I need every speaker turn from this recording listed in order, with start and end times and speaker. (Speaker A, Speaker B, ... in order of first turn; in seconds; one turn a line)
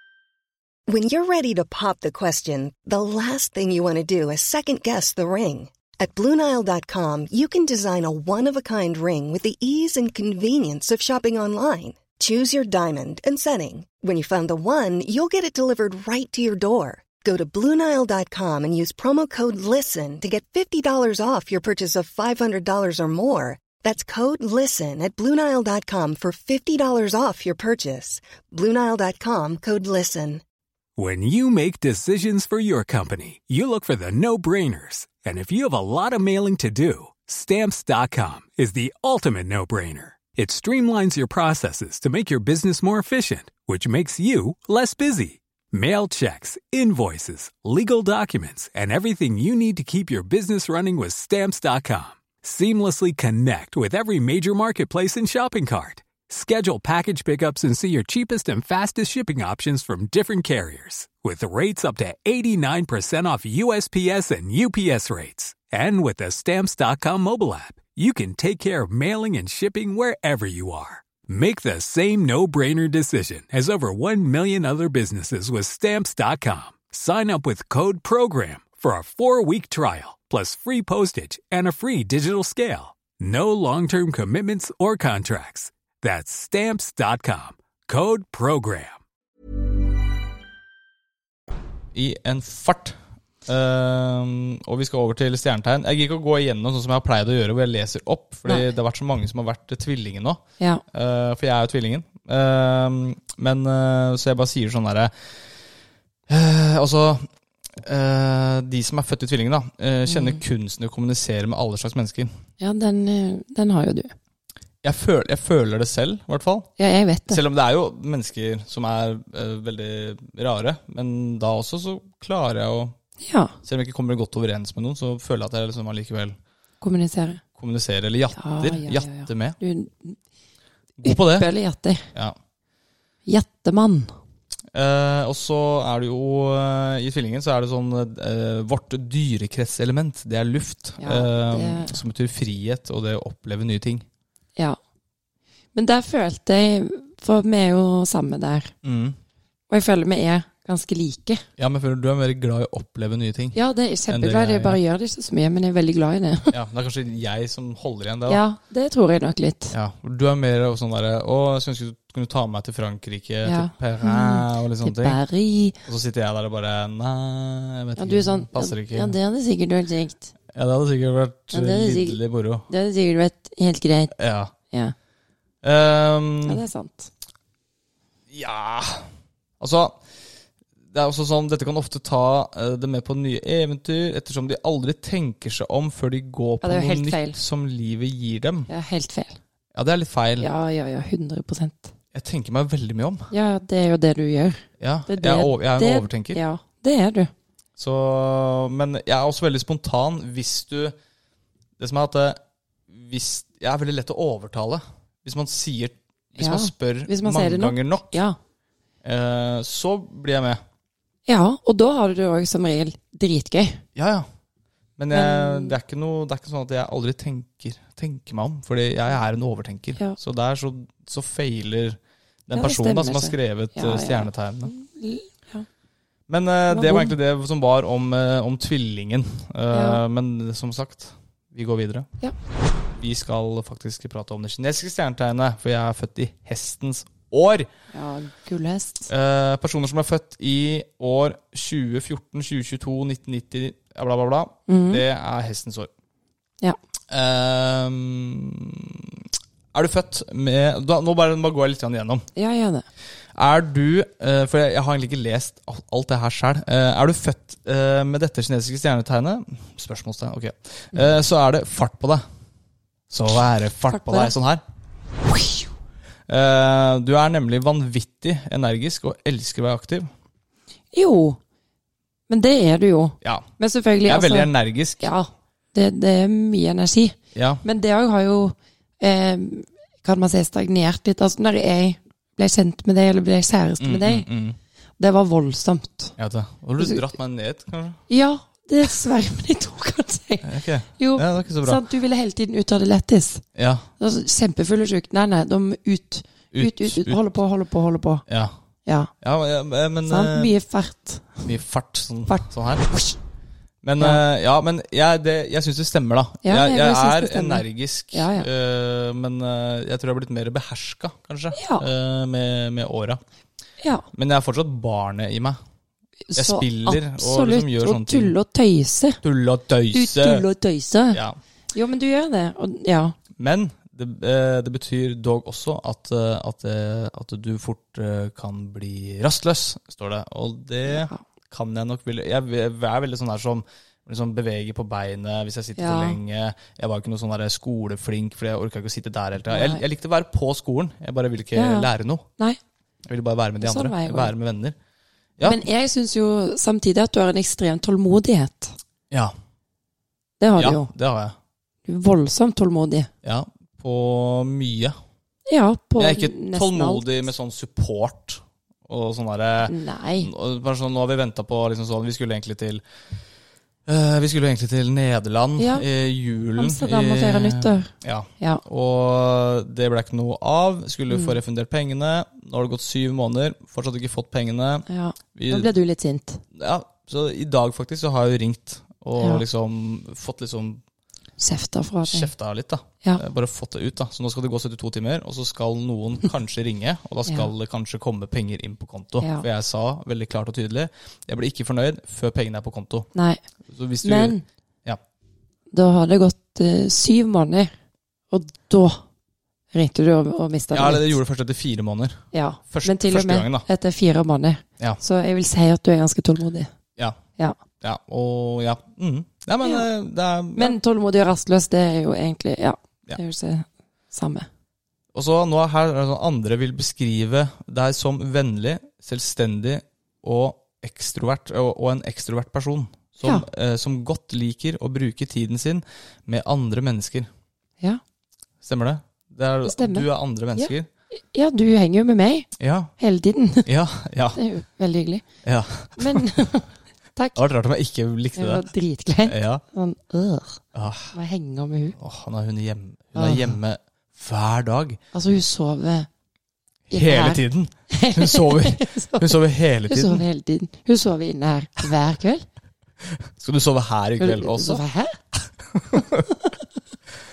Speaker A: 0.9-30.4
Speaker B: 31.0-89.0
Speaker C: 91.9-105.1
Speaker C: 106.3-107.3
Speaker C: 107.8-112.3
Speaker D: 110.1-110.4
Speaker D: 112.6-114.1
Speaker C: 114.8-116.7
Speaker D: 116.8-117.4
Speaker C: 117.3-123.0
Speaker D: 123.2-123.5
Speaker C: 123.6-126.3
Speaker D: 126.8-127.4
Speaker C: 127.6-129.6
Speaker D: 128.3-130.2
Speaker C: 131.0-131.5
Speaker D: 131.0-132.1
Speaker D: 133.2-134.1
Speaker C: 134.7-144.0
Speaker D: 141.0-142.0
Speaker D: 145.7-148.7
Speaker C: 148.8-149.2
Speaker D: 149.7-151.4
Speaker C: 151.6-153.6
Speaker D: 153.5-156.6
Speaker C: 154.1-154.8
Speaker C: 156.5-158.4
Speaker D: 158.3-159.7
Speaker C: 159.7-165.2
Speaker D: 163.4-165.8
Speaker C: 165.8-169.2
Speaker D: 168.0-170.3
Speaker C: 170.5-172.7
Speaker D: 171.5-174.1
Speaker C: 174.1-174.5
Speaker C: 175.6-176.6
Speaker D: 176.4-177.1
Speaker C: 178.3-179.1
Speaker C: 179.6-180.0
Speaker C: 180.9-188.7
Speaker D: 186.6-187.4
Speaker D: 188.7-189.4
Speaker C: 189.7-190.5
Speaker D: 190.4-191.9
Speaker C: 192.1-193.3
Speaker D: 193.3-197.3
Speaker C: 194.8-196.4
Speaker C: 197.8-200.9
Speaker C: 201.8-208.2
Speaker D: 206.4-208.4
Speaker C: 209.0-210.6
Speaker D: 211.3-213.8
Speaker C: 213.9-214.3
Speaker C: 215.0-224.7
Speaker D: 215.1-215.8
Speaker D: 222.5-225.7
Speaker C: 226.3-232.1
Speaker D: 226.7-227.1
Speaker D: 229.7-230.0
Speaker C: 232.9-237.7
Speaker D: 237.9-239.1
Speaker C: 239.1-245.9
Speaker D: 244.7-245.0
Speaker C: 247.1-252.2
Speaker D: 252.3-252.8
Speaker C: 253.3-262.2
Speaker C: 263.1-264.6
Speaker D: 263.9-264.3
Speaker C: 266.3-270.1
Speaker D: 270.9-271.4
Speaker D: 272.3-284.3
Speaker C: 273.2-273.5
Speaker C: 274.1-275.0
Speaker C: 277.3-277.6
Speaker C: 283.8-284.6
Speaker D: 285.0-286.1
Speaker C: 286.2-288.0
Speaker D: 288.1-293.4
Speaker C: 290.4-291.8
Speaker C: 293.6-293.9
Speaker D: 294.0-298.2
Speaker C: 296.5-297.2
Speaker C: 298.3-298.5
Speaker D: 298.9-299.1
Speaker C: 299.2-300.5
Speaker D: 300.1-301.5
Speaker C: 301.4-302.9
Speaker D: 302.3-303.1
Speaker C: 303.8-313.2
Speaker D: 306.4-308.5
Speaker D: 311.5-311.9
Speaker C: 314.1-315.6
Speaker D: 316.2-319.2
Speaker C: 316.3-318.3
Speaker C: 319.2-320.4
Speaker D: 319.9-321.2
Speaker C: 321.1-321.4
Speaker D: 321.7-323.1
Speaker C: 323.4-342.2
Speaker D: 330.9-331.2
Speaker D: 335.8-336.2
Speaker D: 339.5-339.8
Speaker D: 341.5-342.6
Speaker C: 343.0-344.8
Speaker D: 343.6-344.3
Speaker C: 345.4-345.6
Speaker D: 345.4-348.8
Speaker D: 350.4-350.9
Speaker C: 350.6-351.4
Speaker D: 351.9-353.1
Speaker C: 353.2-354.9
Speaker D: 355.5-357.1
Speaker C: 356.0-362.8
Speaker D: 359.6-360.3
Speaker C: 363.9-375.7
Speaker D: 365.6-365.9
Speaker D: 366.6-368.6
Speaker D: 371.1-371.4
Speaker D: 374.9-376.4
Speaker C: 376.5-380.8
Speaker D: 381.4-382.3
Speaker C: 382.0-393.1
Speaker D: 389.2-389.5
Speaker D: 393.1-393.4
Speaker C: 393.7-395.0
Speaker D: 394.0-394.4
Speaker D: 395.7-397.7
Speaker D: 398.3-399.0
Speaker D: 399.7-401.1
Speaker C: 400.7-403.6
Speaker D: 402.3-406.7
Speaker C: 407.8-410.8
Speaker D: 410.6-414.5
Speaker C: 415.1-427.3
Speaker C: 428.6-430.9
Speaker D: 429.6-432.5
Speaker C: 432.6-432.9
Speaker D: 433.0-433.7
Speaker C: 433.6-434.4
Speaker D: 434.3-435.2
Speaker C: 435.4-436.4
Speaker D: 436.0-437.4
Speaker C: 437.4-438.7
Speaker D: 438.4-440.6
Speaker C: 439.2-439.6
Speaker C: 440.7-441.1
Speaker D: 441.1-441.9
Speaker C: 442.0-445.0
Speaker D: 443.1-443.6
Speaker D: 445.1-446.1
Speaker C: 446.9-450.2
Speaker D: 446.9-452.4
Speaker C: 453.2-454.8
Speaker D: 454.2-455.2
Speaker C: 455.7-456.3